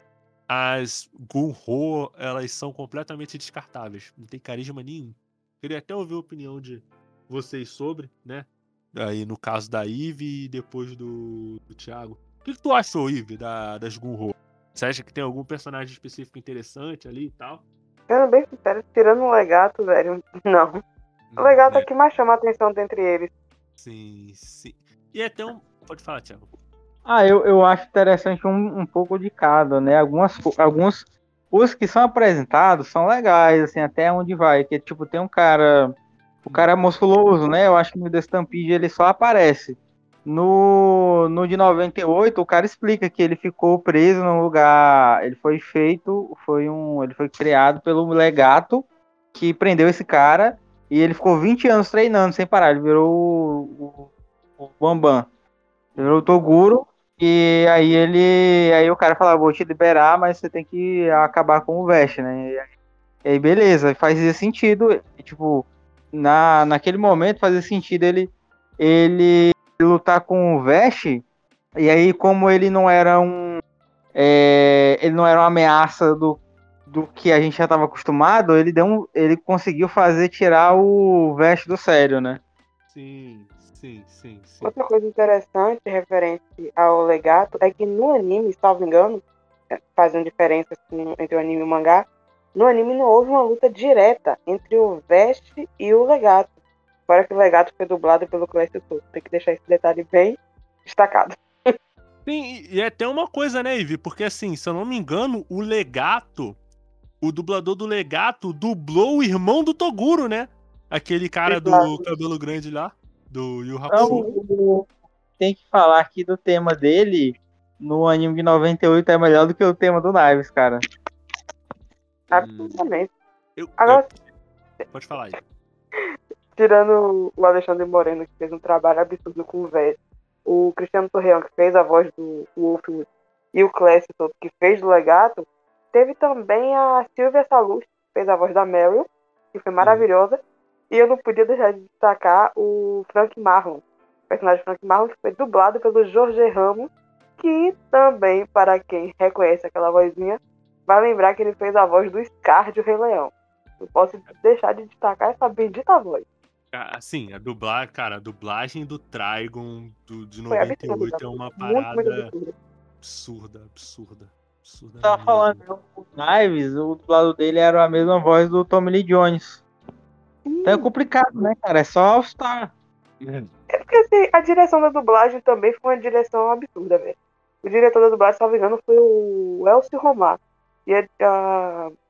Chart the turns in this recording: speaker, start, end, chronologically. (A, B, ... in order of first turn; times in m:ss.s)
0:00.5-0:17.6 A
0:18.1-0:20.8 B
0:21.3-0:21.9 A
0:21.4-0:23.3 B
0:23.8-0:26.5 A
0:27.1-0:55.3 C
0:36.5-0:36.7 A
0:56.0-1:02.7 C
1:03.2-1:11.2 C
1:11.8-1:13.6 C
1:14.2-1:22.4 C
1:22.9-1:24.7 A
1:24.6-1:36.5 B
1:37.1-1:41.7 B
1:42.3-1:46.6 A
1:47.2-1:54.2 A
1:51.5-1:52.0 B
1:53.9-1:54.4 B
1:53.9-2:00.8 C
2:02.3-2:03.1 B
2:02.3-2:02.8 A
2:03.6-2:04.2 A
2:03.8-2:04.1 B
2:04.9-2:05.4 A
2:06.6-2:20.4 B
2:19.8-2:20.1 A
2:20.9-2:36.3 B
2:36.7-2:42.3 A
2:40.5-2:42.6 B
2:43.0-2:45.6 A
2:45.0-2:49.6 C
2:50.5-2:50.9 B
2:50.6-2:52.7 C
2:53.7-3:01.9 B